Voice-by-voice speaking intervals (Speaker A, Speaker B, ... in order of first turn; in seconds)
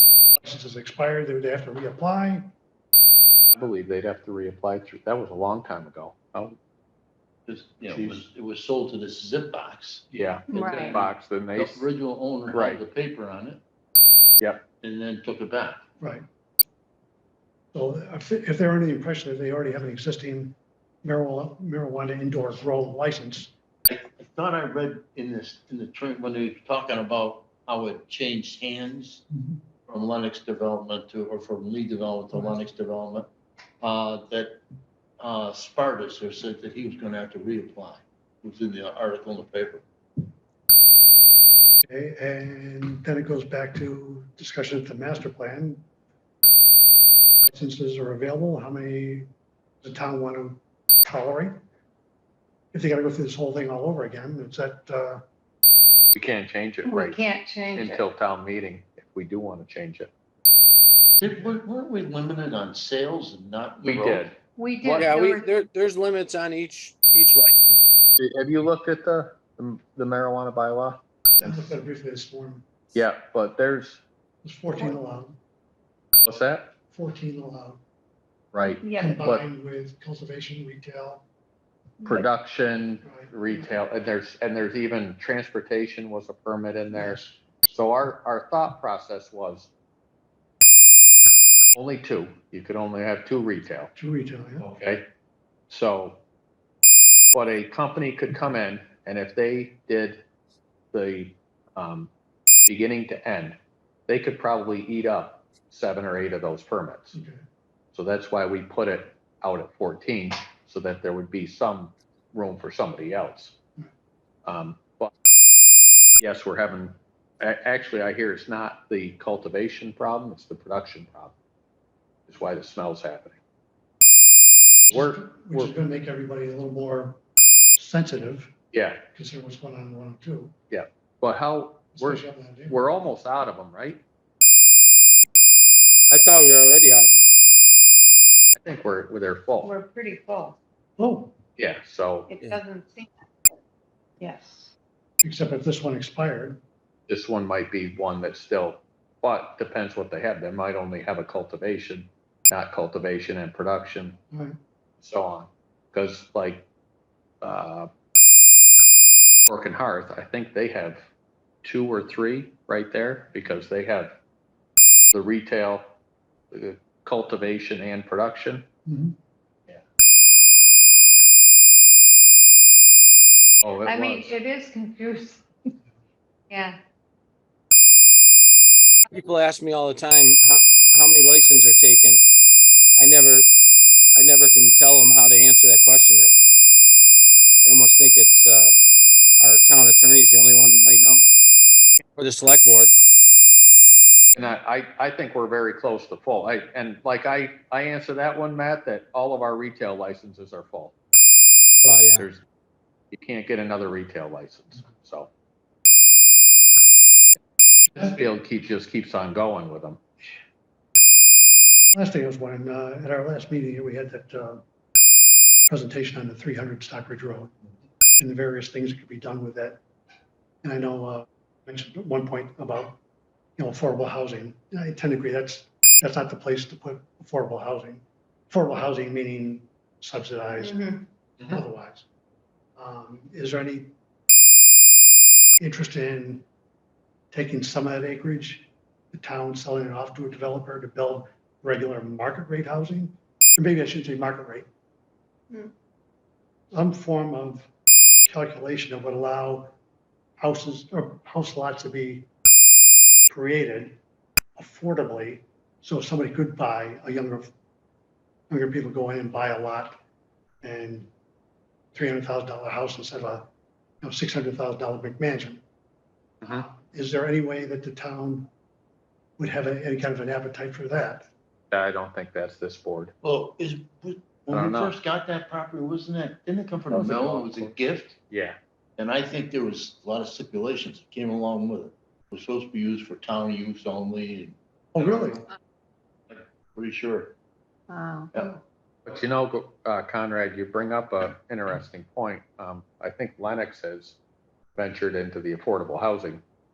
Speaker A: 0.4-2.5, 16.0-16.2, 17.7-23.5, 41.8-45.8, 47.5-49.3, 49.8-51.6, 52.7-55.2, 71.4-72.7, 74.4-75.4, 76.9-77.8, 78.9-81.2, 83.0-83.8, 86.9-87.4, 93.9-94.7, 107.1-107.4, 124.9-127.2, 127.8-128.5, 129.1-130.5, 131.9-132.8, 141.0-141.4, 145.2-146.6, 168.9-169.1, 211.9-214.6, 215.7-217.5, 218.2-219.8, 220.6-223.0, 223.6-230.9, 231.5-232.1, 232.8-233.9, 235.6-236.4, 237.3-244.7, 246.7-247.7, 248.3-249.8, 250.4-252.3, 253.3-254.0, 254.6-257.5, 258.5-260.0, 260.6-261.1, 261.9-263.5, 264.0-265.6, 266.4-268.5, 269.4-271.3, 284.9-285.4
Speaker B: 3.5-6.6, 7.9-8.2, 10.1-11.9, 12.5-12.8, 56.1-60.1, 63.8-65.2, 68.2-71.0, 72.9-74.0, 76.2-76.7, 78.5-79.4, 82.0-89.7, 91.7-93.9, 94.6-95.1, 95.7-96.2, 97.3-100.2, 100.9-102.1, 102.7-107.1, 107.9-113.5, 114.5-115.1, 116.2-121.3, 122.3-123.4, 124.9-125.7, 128.7-129.0, 130.7-134.0, 138.6-139.7, 141.6-142.3, 147.1-154.2, 155.0-156.7, 157.4-157.9, 159.4-161.1, 161.6-164.2, 165.1-165.9, 166.5-168.7, 173.6-174.3, 194.3-200.9, 203.1-205.3, 207.9-210.0, 271.7-273.1, 274.5-274.9, 276.9-277.7, 278.3-278.6, 289.1-294.2, 294.8-296.4
Speaker C: 7.5-13.6, 14.8-15.8, 23.9-29.2, 29.9-33.3, 33.8-34.6, 35.2-39.8, 61.2-64.3, 273.2-278.2, 279.0-284.6, 286.3-287.3
Speaker D: 10.5-11.0, 56.8-58.0, 64.5-65.5, 78.8-79.2, 139.6-140.6, 142.3-143.1, 144.2-144.7, 173.8-175.4, 176.5-176.8, 230.5-231.0, 287.9-288.3
Speaker E: 64.9-67.9, 136.1-137.3, 179.1-182.2, 183.0-183.5, 184.1-186.3, 187.6-188.7, 189.4-191.3, 192.2-192.9, 201.8-202.3